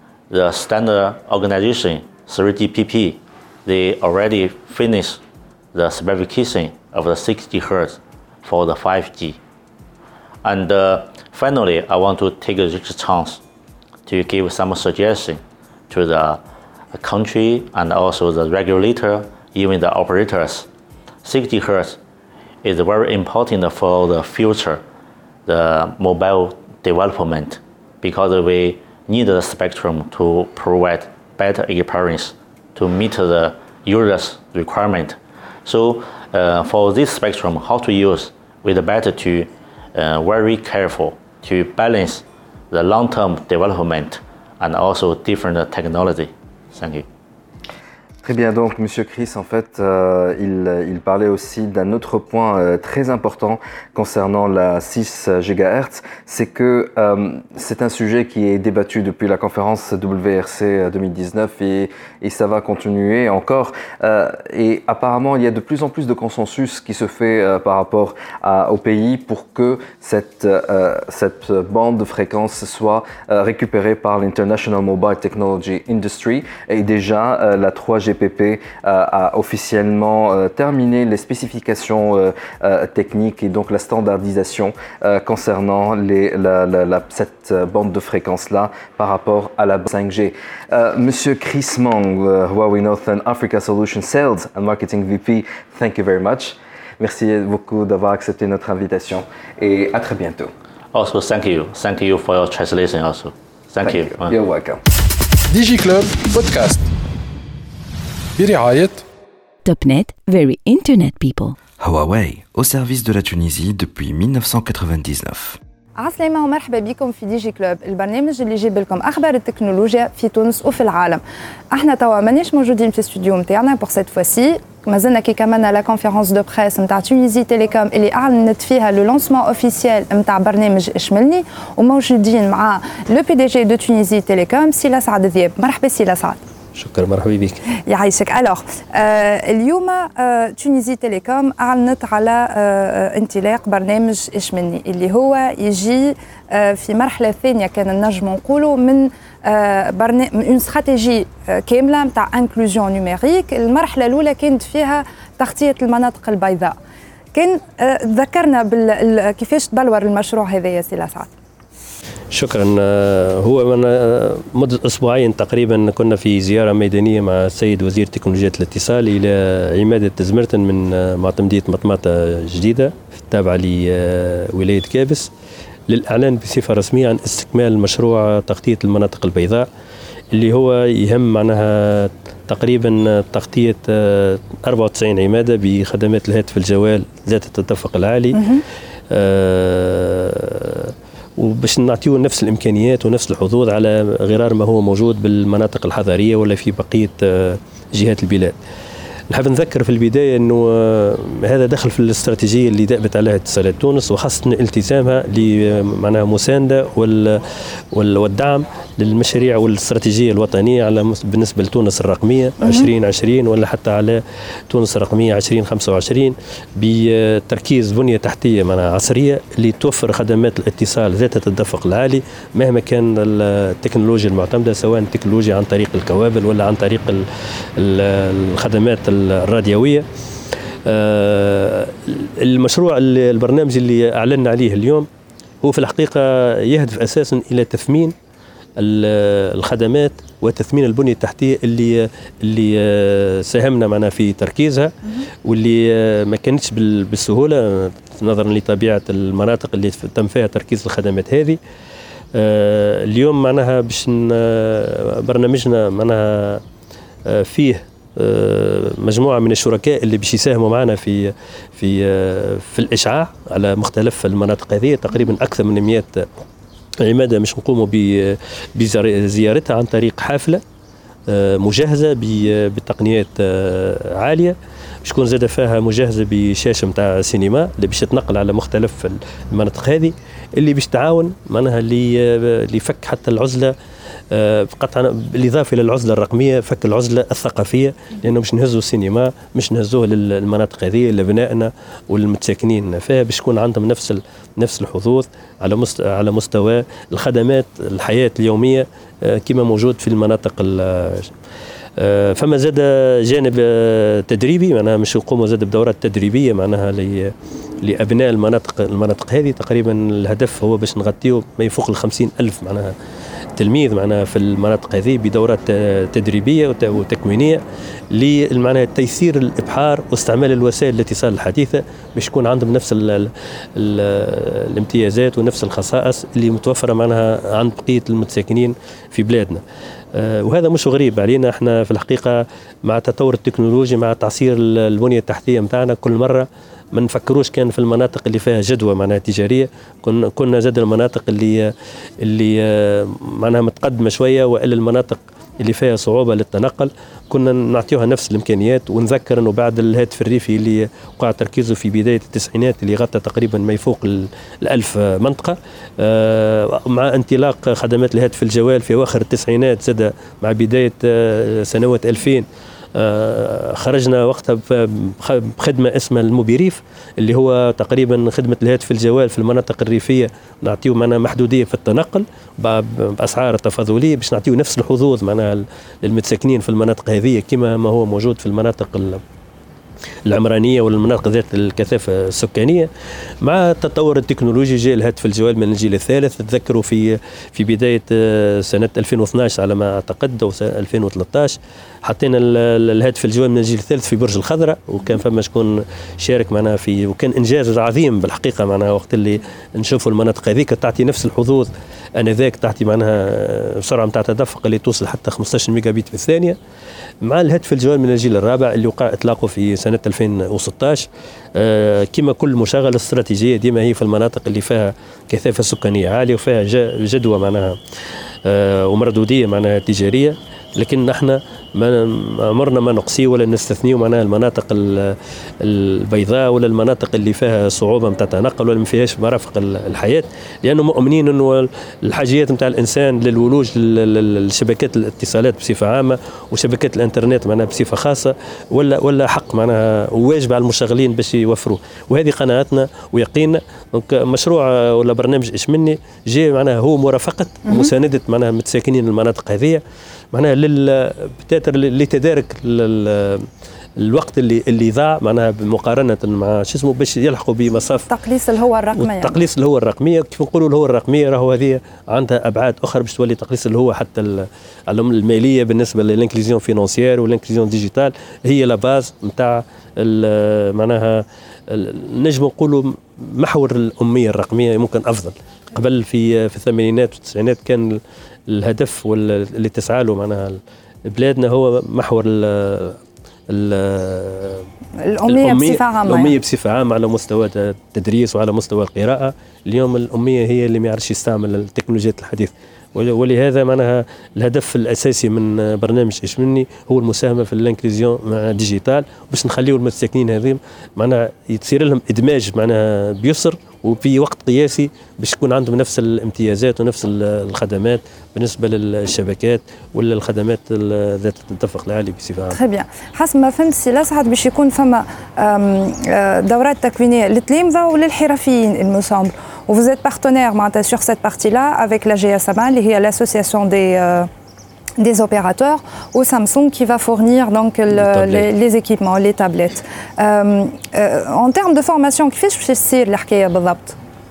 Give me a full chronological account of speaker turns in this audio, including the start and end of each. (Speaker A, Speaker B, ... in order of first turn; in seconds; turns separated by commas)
Speaker A: 0.3-5.2, Speaker A: 5.7-9.4, Speaker A: 10.4-13.4, Speaker A: 14.1-16.4, Speaker A: 16.9-20.7, Speaker A: 21.2-22.0, Speaker A: 22.6-24.8, Speaker A: 25.4-47.0, Speaker B: 48.2-100.5, Speaker A: 100.9-104.4, Speaker B: 103.8-104.8, Speaker C: 105.5-106.9, Speaker C: 108.4-109.0, Speaker D: 109.6-111.6, Speaker E: 111.8-115.6, Speaker F: 116.0-136.4, Speaker G: 136.7-137.6, Speaker F: 137.9-156.8, Speaker F: 157.3-161.3, Speaker G: 162.3-175.3, Speaker G: 175.9-179.7, Speaker G: 180.3-188.6, Speaker F: 188.3-188.6, Speaker G: 189.1-198.6, Speaker G: 199.3-227.3, Speaker F: 212.6-212.9, Speaker G: 227.8-230.1, Speaker G: 230.9-235.1, Speaker G: 235.6-238.1, Speaker G: 238.8-251.6, Speaker G: 252.3-256.6, Speaker G: 257.3-266.3, Speaker G: 267.0-270.6, Speaker G: 271.3-283.7, Speaker G: 284.3-301.3, Speaker G: 302.0-312.9, Speaker G: 313.6-329.6, Speaker G: 330.1-341.7, Speaker G: 342.2-379.2, Speaker G: 380.3-382.9, Speaker G: 383.4-406.6, Speaker G: 407.2-417.7, Speaker G: 418.4-449.8, Speaker F: 447.6-447.9, Speaker G: 450.3-453.4, Speaker G: 454.0-458.1, Speaker F: 458.1-459.4, Speaker G: 458.9-483.0, Speaker G: 483.5-484.6, Speaker F: 485.0-486.3, Speaker G: 485.2-512.6, Speaker F: 512.5-524.3, Speaker F: 525.0-534.0, Speaker G: 527.9-528.5